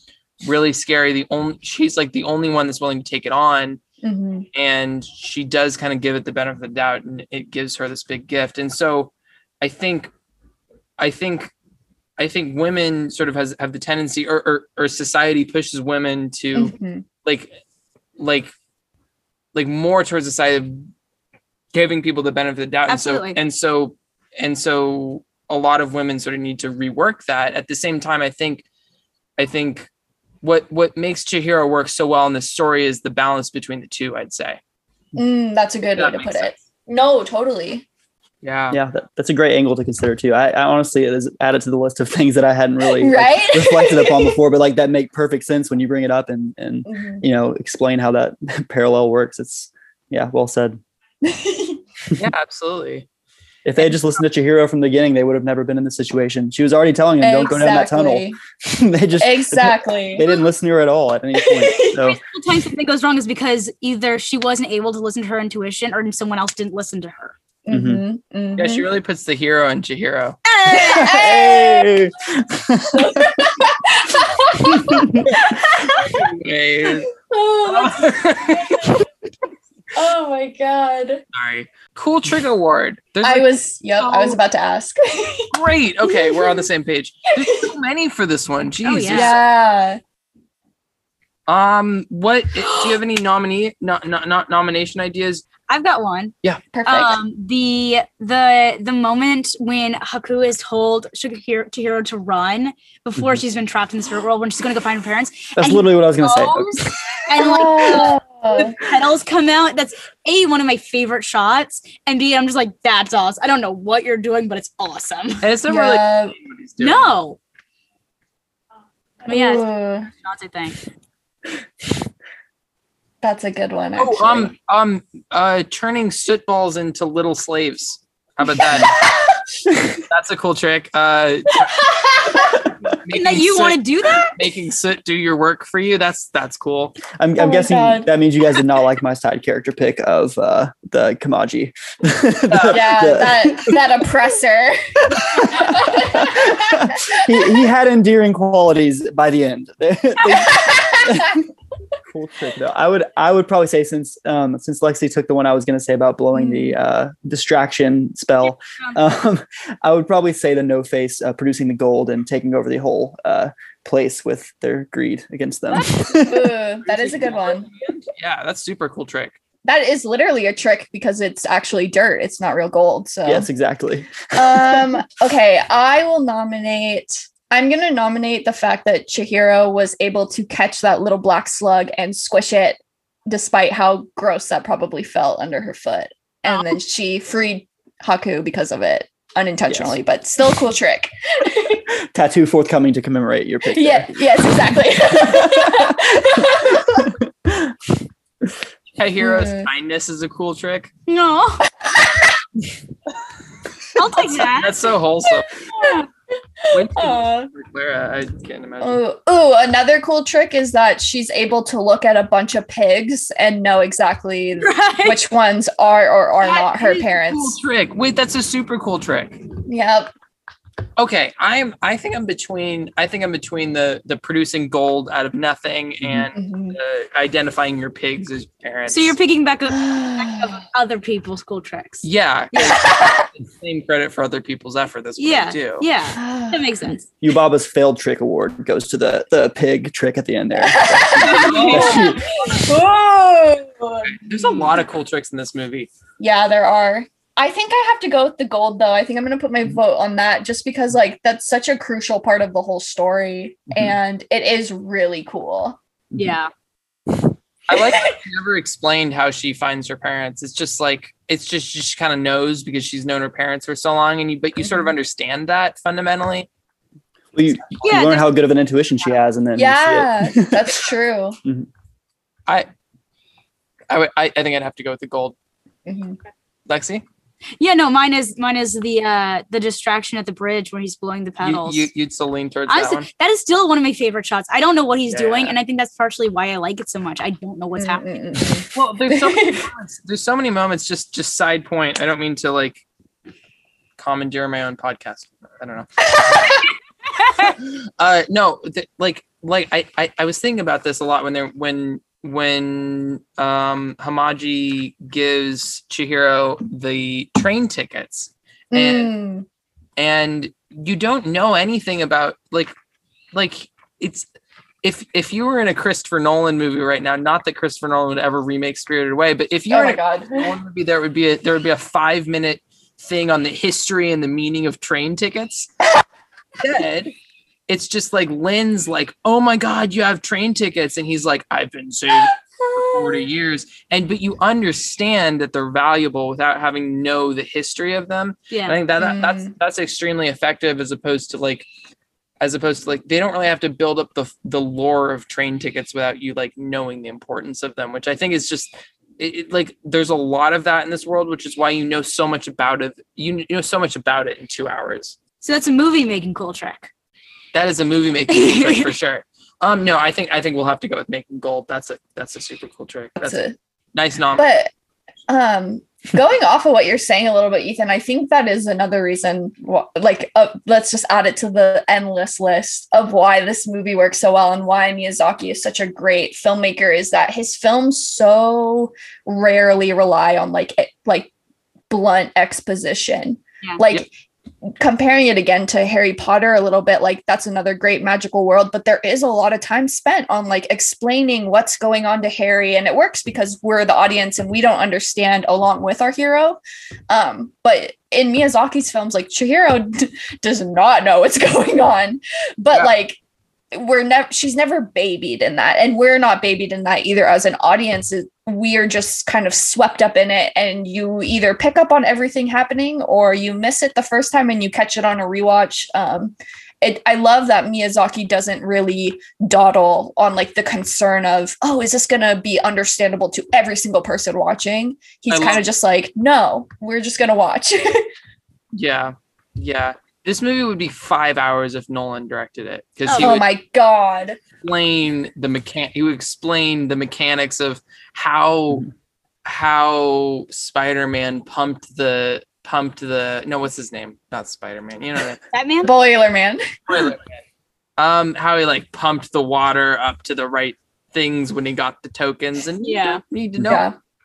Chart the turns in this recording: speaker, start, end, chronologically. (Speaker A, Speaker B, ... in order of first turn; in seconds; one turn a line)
Speaker A: 0.4-3.8
Speaker B: 4.0-4.5
Speaker A: 4.5-10.1
Speaker A: 11.0-11.5
Speaker A: 12.2-17.5
Speaker B: 16.5-17.0
Speaker A: 18.2-18.5
Speaker A: 19.5-20.9
Speaker A: 21.7-28.6
Speaker C: 22.9-23.4
Speaker A: 29.4-29.9
Speaker A: 30.4-34.6
Speaker B: 35.1-37.8
Speaker A: 35.8-36.5
Speaker A: 38.4-38.8
Speaker D: 38.7-50.8
Speaker B: 42.9-44.4
Speaker B: 46.9-47.2
Speaker B: 51.2-51.8
Speaker A: 52.2-53.0
Speaker D: 53.6-62.2
Speaker B: 57.2-58.4
Speaker B: 59.2-60.3
Speaker C: 61.9-67.3
Speaker B: 67.7-68.8
Speaker D: 67.7-68.0
Speaker A: 68.6-70.4
Speaker C: 70.5-71.3
Speaker B: 70.7-71.9
Speaker D: 70.7-73.3
Speaker B: 72.9-76.3
Speaker D: 74.7-75.3
Speaker A: 76.1-77.1
Speaker B: 77.0-79.0
Speaker A: 77.6-79.0
Speaker B: 79.9-81.2
Speaker A: 81.3-84.4
Speaker B: 83.2-85.5
Speaker A: 85.5-89.4
Speaker B: 86.0-86.6
Speaker C: 88.8-89.3
Speaker B: 89.1-90.0
Speaker A: 91.5-95.5
Speaker C: 95.7-96.3
Speaker B: 96.7-97.2
Speaker C: 96.8-115.5
Speaker D: 105.5-106.9
Speaker B: 107.4-108.8
Speaker A: 115.4-117.1
Speaker B: 115.7-116.3
Speaker C: 116.8-117.4
Speaker B: 119.2-120.1
Speaker C: 119.3-120.8
Speaker B: 123.2-124.5
Speaker A: 124.0-129.0
Speaker B: 128.6-129.4
Speaker A: 130.1-131.7
Speaker B: 131.7-132.6
Speaker A: 132.6-133.8
Speaker C: 133.1-134.3
Speaker A: 134.3-137.0
Speaker D: 137.1-143.8
Speaker B: 137.4-138.1
Speaker A: 142.5-143.0
Speaker B: 142.7-147.0
Speaker D: 145.1-151.4
Speaker B: 150.3-151.3
Speaker D: 152.1-166.6
Speaker B: 156.3-156.8
Speaker C: 165.7-166.2
Speaker B: 166.3-167.7
Speaker A: 166.8-169.3
Speaker B: 169.6-173.5
Speaker D: 173.2-175.0
Speaker B: 174.3-191.8
Speaker D: 189.7-189.9
Speaker D: 192.1-197.7
Speaker B: 193.7-197.1
Speaker A: 199.0-200.9
Speaker B: 199.2-199.7
Speaker C: 201.1-201.6
Speaker B: 201.8-202.4
Speaker C: 203.9-204.8
Speaker A: 204.5-205.5
Speaker B: 205.3-206.0
Speaker C: 205.8-206.1
Speaker B: 206.6-207.5
Speaker A: 206.7-209.0
Speaker B: 208.8-217.6
Speaker C: 214.6-215.2
Speaker A: 216.4-219.4
Speaker B: 219.7-220.1
Speaker A: 221.0-229.1
Speaker D: 226.0-226.3
Speaker B: 226.3-226.8
Speaker C: 228.9-232.7
Speaker B: 229.7-230.6
Speaker A: 232.0-235.8
Speaker B: 232.5-233.3
Speaker C: 235.2-237.0
Speaker B: 236.2-236.6
Speaker D: 237.2-242.3
Speaker B: 240.6-244.7
Speaker A: 241.2-242.1
Speaker C: 241.3-242.0
Speaker A: 244.1-245.9
Speaker B: 246.2-255.8
Speaker C: 256.1-256.5
Speaker A: 257.7-266.5
Speaker B: 257.7-258.2
Speaker B: 264.6-264.9
Speaker D: 267.3-270.7
Speaker C: 267.8-268.3
Speaker B: 269.6-271.4
Speaker A: 273.9-275.3
Speaker B: 275.9-276.2
Speaker A: 276.7-277.0
Speaker C: 277.6-281.9
Speaker A: 281.4-283.1
Speaker C: 282.7-288.1
Speaker A: 285.1-285.5
Speaker B: 287.8-289.6
Speaker A: 288.7-292.8
Speaker A: 294.0-295.9
Speaker B: 296.1-296.6
Speaker C: 297.2-297.5
Speaker A: 297.6-309.1
Speaker B: 308.7-309.4
Speaker A: 310.0-312.7
Speaker A: 313.3-314.3
Speaker A: 314.8-325.7
Speaker B: 319.7-320.5
Speaker A: 326.6-327.1
Speaker A: 327.7-341.7
Speaker B: 332.7-333.2
Speaker C: 338.5-338.8
Speaker B: 339.0-339.5
Speaker A: 342.4-355.1
Speaker C: 355.4-356.9
Speaker A: 357.5-363.4
Speaker C: 358.3-358.9
Speaker B: 363.2-363.5
Speaker A: 363.9-364.5
Speaker B: 364.3-364.7
Speaker B: 365.3-381.3
Speaker B: 381.9-384.1
Speaker B: 384.8-396.6
Speaker B: 397.1-403.2
Speaker B: 403.7-428.1
Speaker A: 425.3-425.6
Speaker A: 428.7-433.5
Speaker C: 433.1-433.4
Speaker B: 433.1-434.4
Speaker A: 434.6-438.9
Speaker A: 439.4-445.4
Speaker C: 445.5-445.9
Speaker B: 445.8-447.1
Speaker A: 446.9-447.2
Speaker A: 448.0-453.9
Speaker C: 452.8-453.2
Speaker D: 453.6-453.8
Speaker B: 453.6-453.9